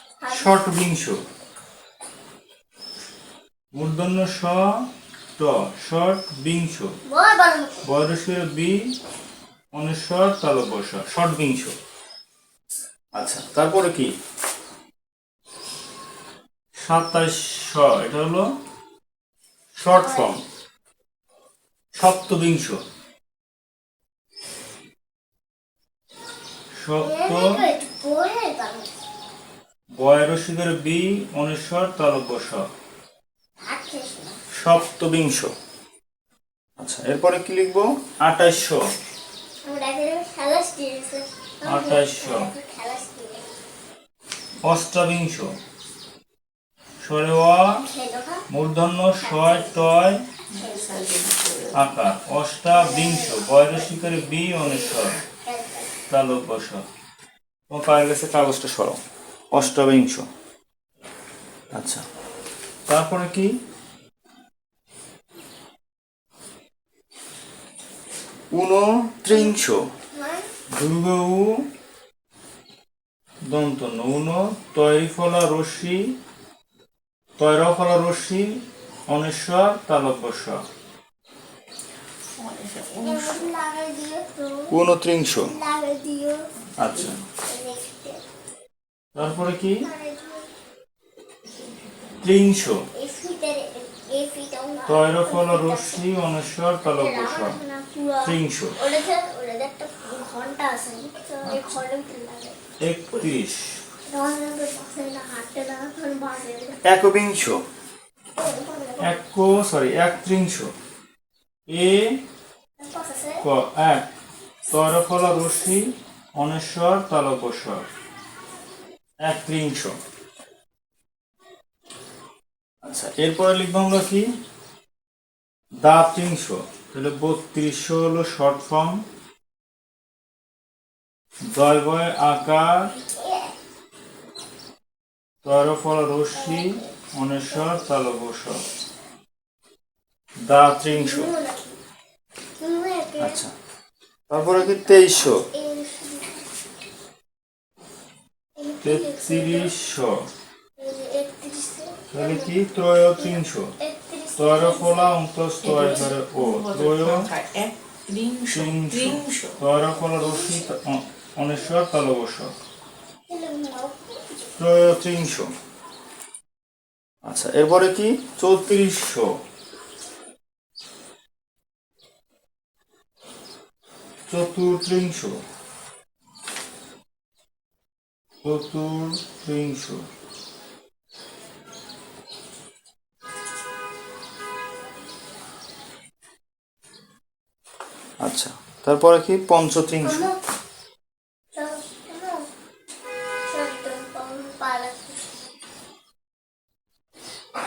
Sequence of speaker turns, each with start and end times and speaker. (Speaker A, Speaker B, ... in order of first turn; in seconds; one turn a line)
Speaker A: 0.2-0.8
Speaker B: 0.3-1.2
Speaker B: 3.7-7.0
Speaker A: 7.1-7.9
Speaker B: 7.8-8.9
Speaker B: 9.7-11.8
Speaker B: 13.2-14.1
Speaker B: 16.8-18.6
Speaker B: 19.8-20.4
Speaker A: 19.9-20.4
Speaker B: 21.9-22.8
Speaker B: 26.8-27.7
Speaker A: 27.0-28.9
Speaker B: 30.0-32.7
Speaker A: 33.6-34.4
Speaker B: 34.6-35.5
Speaker B: 36.8-38.9
Speaker A: 39.6-43.5
Speaker B: 41.6-42.5
Speaker B: 44.6-45.5
Speaker B: 47.0-47.8
Speaker A: 47.8-48.5
Speaker B: 48.5-50.2
Speaker A: 49.2-50.0
Speaker C: 50.5-51.9
Speaker A: 50.5-50.9
Speaker B: 51.7-55.2
Speaker A: 52.7-56.0
Speaker B: 56.1-56.9
Speaker B: 57.7-60.3
Speaker B: 61.7-62.0
Speaker B: 62.9-63.5
Speaker B: 68.5-69.9
Speaker A: 69.3-69.6
Speaker A: 70.1-70.5
Speaker B: 70.7-71.7
Speaker B: 73.5-76.2
Speaker B: 77.4-80.6
Speaker C: 82.4-83.5
Speaker A: 83.0-84.7
Speaker B: 84.7-85.5
Speaker A: 85.4-86.5
Speaker B: 86.8-87.2
Speaker A: 87.4-88.2
Speaker B: 89.2-89.9
Speaker A: 89.8-90.5
Speaker C: 91.5-92.4
Speaker B: 92.2-92.9
Speaker A: 92.9-96.0
Speaker B: 94.9-97.6
Speaker A: 96.9-102.6
Speaker B: 98.2-98.8
Speaker B: 101.5-101.8
Speaker B: 102.8-103.8
Speaker A: 104.1-106.8
Speaker B: 106.8-107.6
Speaker A: 108.4-109.2
Speaker B: 109.0-110.7
Speaker B: 111.7-112.2
Speaker A: 112.8-113.4
Speaker B: 113.4-114.1
Speaker B: 114.7-117.9
Speaker B: 119.2-120.0
Speaker B: 122.8-124.3
Speaker B: 125.8-129.1
Speaker B: 131.5-132.9
Speaker A: 133.0-133.5
Speaker B: 135.4-138.6
Speaker A: 136.3-136.9
Speaker A: 137.5-137.8
Speaker B: 140.5-141.3
Speaker A: 140.9-141.8
Speaker A: 142.6-143.4
Speaker B: 143.2-143.5
Speaker B: 144.3-145.4
Speaker A: 144.4-146.5
Speaker A: 148.6-149.7
Speaker B: 148.8-150.3
Speaker A: 150.8-152.6
Speaker B: 152.1-153.7
Speaker A: 153.2-155.2
Speaker B: 154.4-157.3
Speaker C: 155.6-159.6
Speaker B: 158.5-162.6
Speaker A: 160.0-160.7
Speaker A: 163.3-164.5
Speaker B: 164.6-165.5
Speaker B: 167.2-169.4
Speaker B: 174.3-175.4
Speaker B: 178.4-180.1
Speaker B: 188.2-190.3
Speaker A: 190.0-190.4
Speaker A: 191.5-192.4
Speaker A: 193.5-195.2